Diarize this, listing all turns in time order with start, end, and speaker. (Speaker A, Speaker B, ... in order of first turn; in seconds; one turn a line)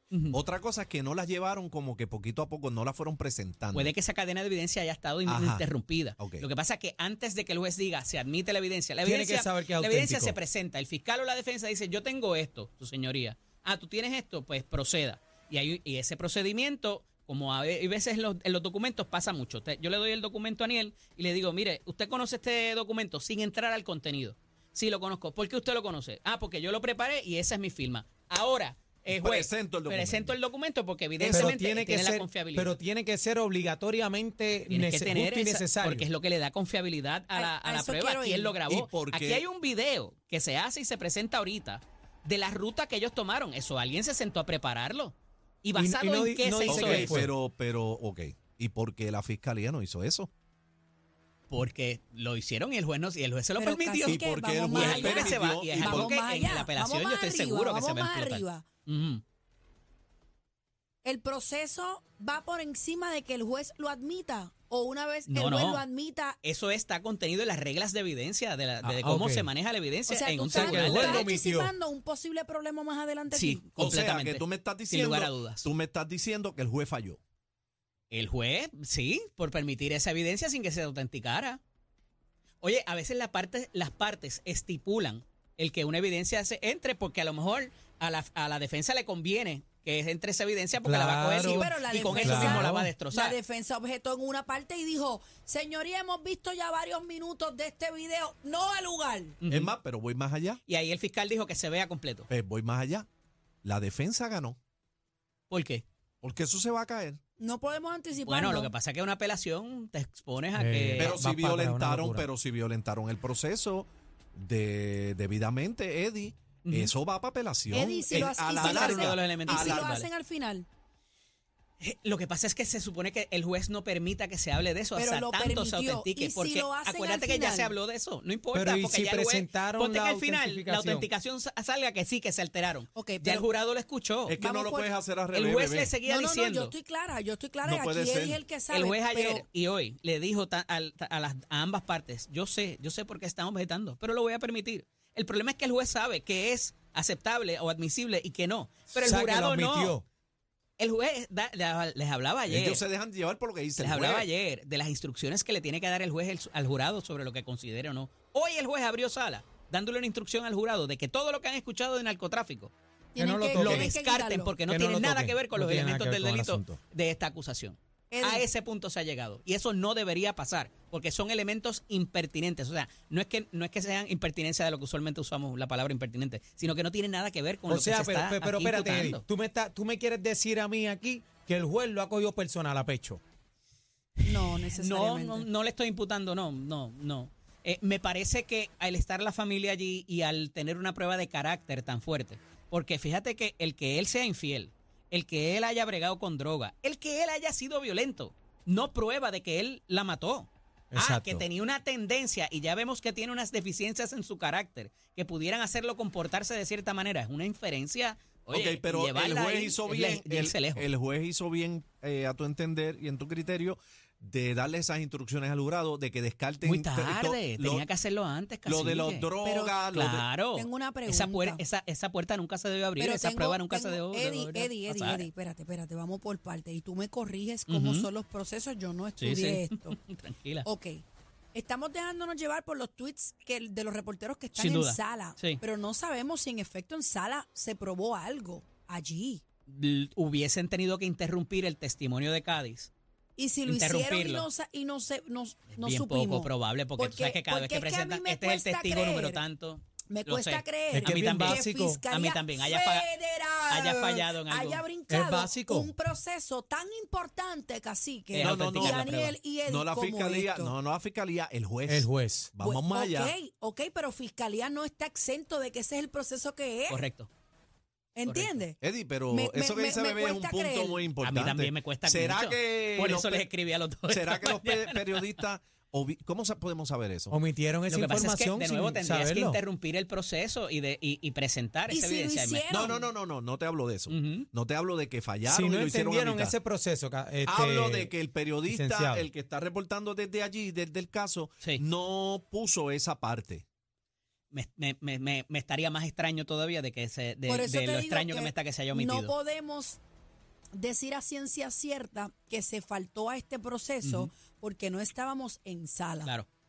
Speaker A: 0.1-0.4
Speaker B: 0.3-3.9
Speaker A: 3.7-32.8
Speaker B: 5.3-6.5
Speaker C: 9.0-10.4
Speaker B: 29.1-30.4
Speaker B: 31.2-31.5
Speaker C: 31.3-36.1
Speaker A: 34.7-47.3
Speaker D: 37.3-38.6
Speaker B: 38.7-39.5
Speaker C: 45.8-47.3
Speaker B: 46.7-50.3
Speaker A: 51.5-59.2
Speaker D: 53.6-58.7
Speaker B: 54.0-56.1
Speaker D: 61.0-66.4
Speaker A: 65.3-65.8
Speaker A: 66.4-71.3
Speaker C: 68.8-69.5
Speaker D: 70.1-73.7
Speaker C: 70.5-71.7
Speaker A: 73.3-75.7
Speaker B: 73.7-77.2
Speaker A: 78.1-81.6
Speaker A: 82.6-93.4
Speaker C: 90.8-93.0
Speaker D: 91.5-99.4
Speaker A: 99.4-99.7
Speaker B: 99.5-100.6
Speaker A: 100.7-102.3
Speaker B: 102.3-103.1
Speaker B: 103.6-104.6
Speaker A: 105.5-105.8
Speaker B: 106.2-107.2
Speaker D: 107.4-108.7
Speaker A: 108.2-111.2
Speaker C: 110.5-112.3
Speaker B: 111.0-120.0
Speaker A: 116.7-116.9
Speaker D: 117.7-120.7
Speaker A: 118.1-120.1
Speaker A: 121.8-134.4
Speaker D: 125.0-127.8
Speaker C: 128.5-131.1
Speaker D: 132.9-133.5
Speaker B: 134.3-135.9
Speaker D: 134.4-134.9
Speaker A: 135.3-136.7
Speaker D: 136.0-139.5
Speaker B: 137.6-138.4
Speaker A: 138.7-150.0
Speaker C: 148.9-150.1
Speaker A: 150.8-152.9
Speaker B: 152.5-154.3
Speaker A: 153.8-162.7
Speaker D: 163.2-164.6
Speaker C: 163.2-163.9
Speaker A: 163.5-179.2
Speaker C: 164.7-166.8
Speaker D: 168.1-168.5
Speaker C: 177.7-183.2
Speaker D: 184.2-185.5
Speaker A: 184.2-210.9
Speaker C: 200.9-201.4
Speaker B: 208.5-217.9
Speaker A: 216.6-219.3
Speaker B: 218.7-220.4
Speaker D: 219.4-219.8
Speaker A: 219.9-225.3
Speaker D: 220.5-221.6
Speaker D: 223.0-230.0
Speaker A: 227.7-228.1
Speaker A: 229.2-230.7
Speaker D: 230.6-231.0
Speaker D: 231.5-239.4
Speaker A: 234.5-235.6
Speaker A: 239.7-242.9
Speaker D: 243.4-249.4
Speaker A: 243.7-244.5
Speaker A: 245.7-253.1
Speaker D: 250.1-260.7
Speaker C: 250.9-252.0
Speaker A: 253.7-254.8
Speaker C: 255.1-255.9
Speaker A: 258.3-259.4
Speaker B: 258.4-259.1
Speaker B: 259.6-263.4
Speaker C: 261.9-262.5
Speaker D: 262.6-267.1
Speaker A: 266.9-267.3
Speaker D: 268.2-268.8
Speaker A: 268.3-268.6
Speaker B: 268.8-273.5
Speaker D: 269.3-271.1
Speaker A: 271.2-275.4
Speaker B: 274.1-277.3
Speaker C: 277.3-279.6
Speaker A: 277.9-282.9
Speaker D: 281.9-283.0
Speaker B: 282.7-286.6
Speaker A: 284.1-284.5
Speaker C: 285.5-288.1
Speaker B: 287.5-293.6
Speaker C: 288.7-289.3
Speaker A: 294.5-299.3
Speaker D: 297.5-300.0
Speaker D: 300.8-306.4
Speaker A: 304.0-304.3